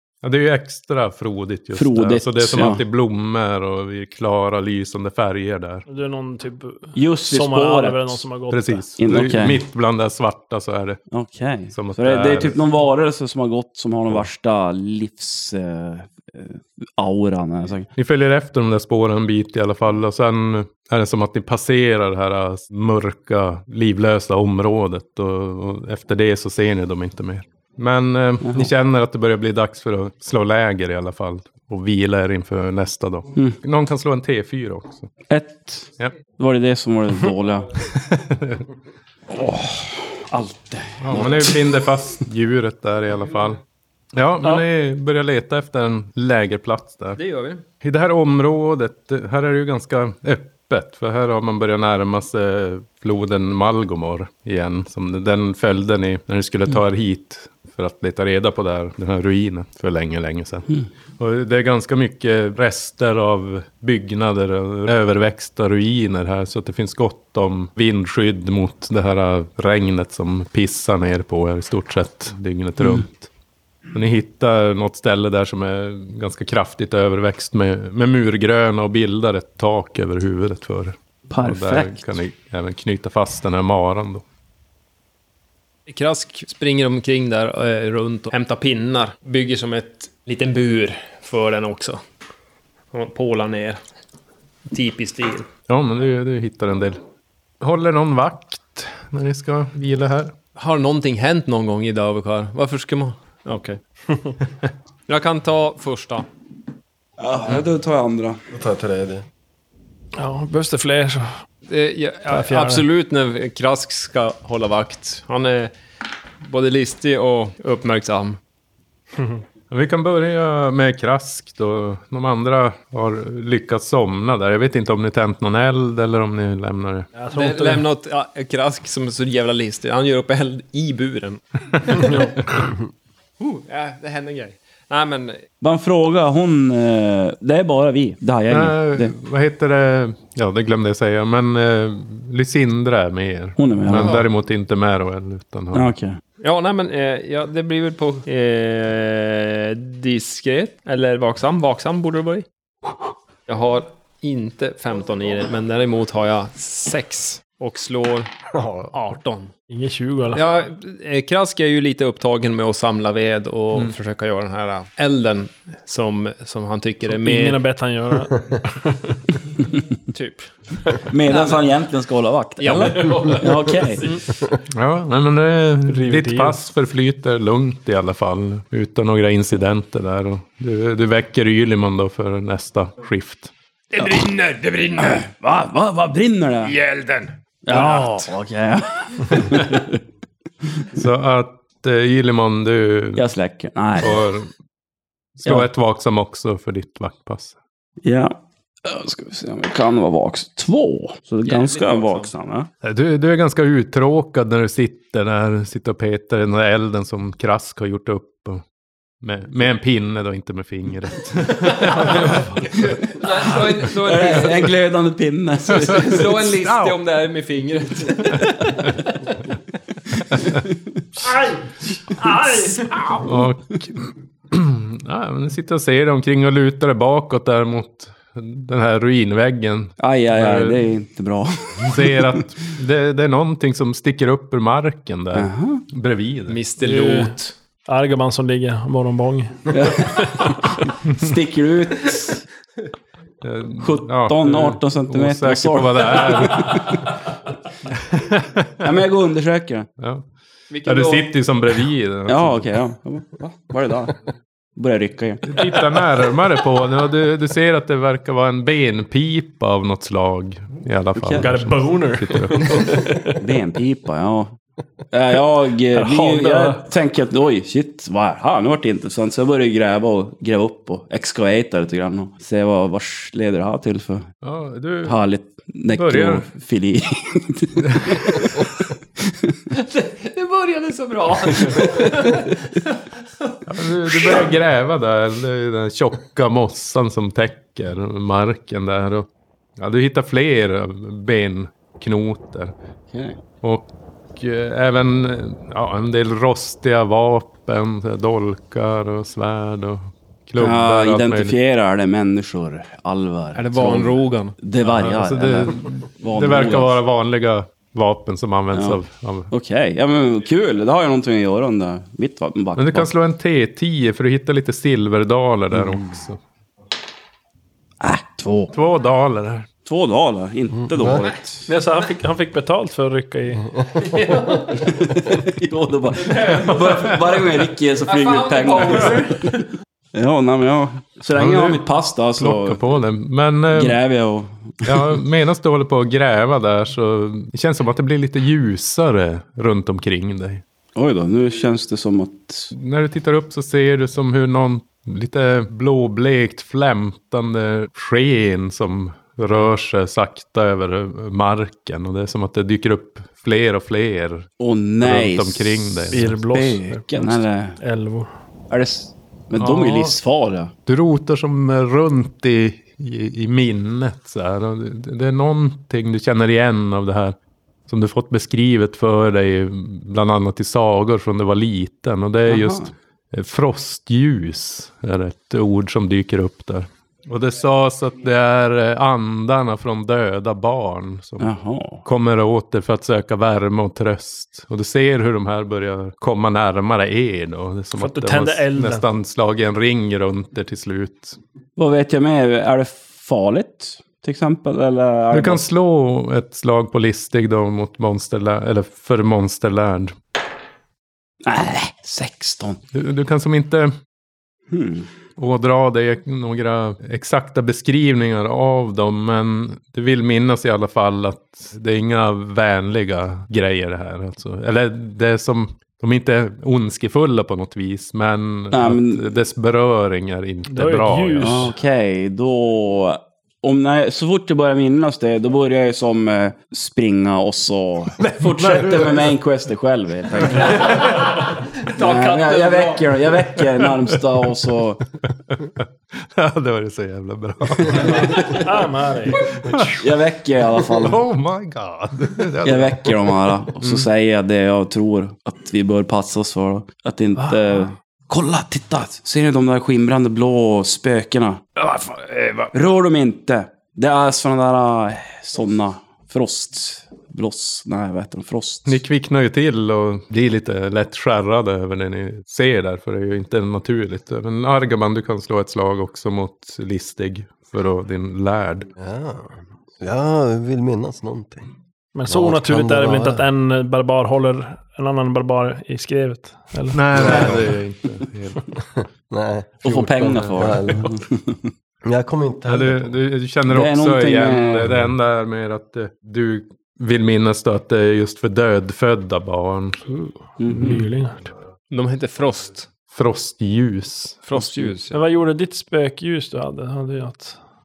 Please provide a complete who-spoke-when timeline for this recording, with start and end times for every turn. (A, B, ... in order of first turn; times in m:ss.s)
0:00.2-0:05.8 A
0:01.7-0:02.8 B
0:05.9-0:08.9 C
0:07.0-0:08.2 B
0:08.5-0:11.0 A
0:09.0-0:09.6 B
0:11.1-0:17.9 B
0:11.7-0:12.6 A
0:18.0-0:35.1 A
0:28.4-0:28.7 B
0:35.3-0:37.7 B
0:37.9-0:38.6 A
0:39.3-0:41.6 B
0:41.0-0:43.6 A
0:44.1-0:47.2 A
0:47.2-0:47.6 D
0:47.8-1:13.3 A
1:13.9-1:24.2 A
1:21.3-1:22.0 B
1:25.9-1:32.0 D
1:32.9-1:33.8 D
1:34.7-1:35.5 D
1:35.7-1:37.0 A
1:37.6-1:40.3 A
1:40.6-1:43.8 D
1:45.1-1:46.3 D
1:47.2-1:48.4 B
1:48.5-1:49.2 E
1:50.2-1:51.4 C
1:51.7-1:55.7 D
1:52.3-1:52.8 C
1:56.4-1:58.4 D
1:59.7-2:07.1 A
2:07.1-2:07.8 C
2:07.3-2:12.3 D
2:13.4-2:15.4 D
2:15.6-2:19.1 B
2:18.5-2:25.9 A
2:23.6-2:24.2 B
2:25.7-2:26.2 B
2:26.4-2:32.4 D
2:33.5-2:39.5 D
2:38.6-2:38.8 E
2:39.7-2:40.4 C
2:40.3-2:47.6 D
2:47.0-2:49.1 C
2:50.1-2:51.6 D
2:51.1-2:54.0 B
2:52.6-2:54.3 D
2:54.7-3:03.5 A
2:55.9-2:56.6 C
3:03.9-3:05.2 D
3:05.0-3:06.7 B
3:06.6-3:08.3 D
3:07.6-3:10.0 B
3:10.9-3:13.2 A
3:13.2-3:14.2 B
3:14.0-3:14.5 A
3:15.4-3:17.6 A
3:18.0-3:22.7 B
3:21.4-3:22.3 D
3:22.8-3:28.6 A
3:29.2-3:32.6 A
3:31.6-3:34.8 D
3:33.9-3:36.3 B
3:35.7-3:39.1 D
3:35.9-3:37.0 A
3:41.2-3:43.1 C
3:42.3-3:42.7 D
3:43.2-3:50.9 A
3:50.0-3:52.3 B
3:51.8-3:56.6 A
3:55.3-3:55.8 B
3:56.5-3:57.5 D
3:56.8-4:00.5 C
3:59.7-4:02.4 B
4:03.4-4:07.1 A
4:03.8-4:07.2 B
4:07.9-4:08.8 A
4:08.8-4:09.9 B
4:10.0-4:10.2 A
4:10.7-4:11.3 D
4:10.8-4:12.7 A
4:12.3-4:14.2 B
4:14.8-4:15.6 B
4:15.4-4:22.9 A
4:21.2-4:21.5 B
4:21.4-4:23.4 C
4:23.4-4:24.6 B
4:25.1-4:34.3 B
4:25.9-4:26.9 C
4:34.4-4:35.2 A
4:35.0-4:39.5 B
4:35.9-4:36.4 A
4:37.9-4:38.1 A
4:39.7-4:43.5 D
4:43.7-4:52.7 A
4:44.1-4:44.4 D
4:53.1-4:53.4 B
4:53.6-5:01.6 A
5:00.6-5:07.0 B
5:03.5-5:04.6 D
5:04.8-5:09.5 A
5:08.7-5:09.0 B
5:09.5-5:13.1 B
5:12.8-5:16.4 A
5:15.7-5:16.1 B
5:18.0-5:18.7 B
5:18.7-5:19.7 A
5:19.8-5:21.6 B
5:20.8-5:21.2 E
5:21.7-5:23.8 C
5:24.0-5:24.9 D
5:24.8-5:29.6 B
5:26.2-5:29.6 D
5:30.1-5:32.8 B
5:31.3-5:34.0 A
5:33.7-5:35.2 B
5:34.8-5:40.6 A
5:40.9-5:42.7 B
5:42.7-5:54.5 A
5:54.6-5:57.8 B
5:55.0-5:56.3 A
5:56.1-5:58.3 C
5:58.7-6:00.7 B
5:59.6-6:00.2 A
6:00.8-6:07.4 A
6:07.9-6:21.5 A
6:12.5-6:12.9 B
6:21.4-6:22.0 B
6:22.0-6:31.4 A
6:28.0-6:29.0 C
6:31.8-6:35.6 B
6:35.3-6:40.1 A
6:41.4-6:42.8 B
6:42.9-6:43.9 A
6:44.7-6:45.1 B
6:45.4-7:01.7 A
6:58.7-6:59.2 B
7:00.7-7:01.7 C
7:01.4-7:11.1 B
7:08.2-7:09.3 A
7:10.5-7:13.5 D
7:11.9-7:15.0 B
7:15.2-7:18.6 A
7:17.9-7:19.6 C
7:19.5-7:20.0 A
7:20.0-7:21.2 B
7:20.9-7:24.1 A
7:22.6-7:31.6 B
7:27.4-7:27.8 C
7:31.8-7:32.7 D
7:32.7-7:39.0 B
7:38.8-7:48.9 A
7:49.0-7:51.7 E
7:52.1-7:57.1 C
7:52.3-7:53.4 E
7:56.9-7:58.6 A
7:57.1-7:57.7 E
7:59.3-8:01.2 E
7:59.8-8:01.7 B
8:02.0-8:03.1 E
8:02.7-8:10.0 A
8:03.7-8:05.0 B
8:10.1-8:11.5 C
8:10.6-8:11.0 B
8:11.9-8:12.9 D
8:13.1-8:14.4 A
8:14.5-8:15.2 D
8:15.1-8:17.6 C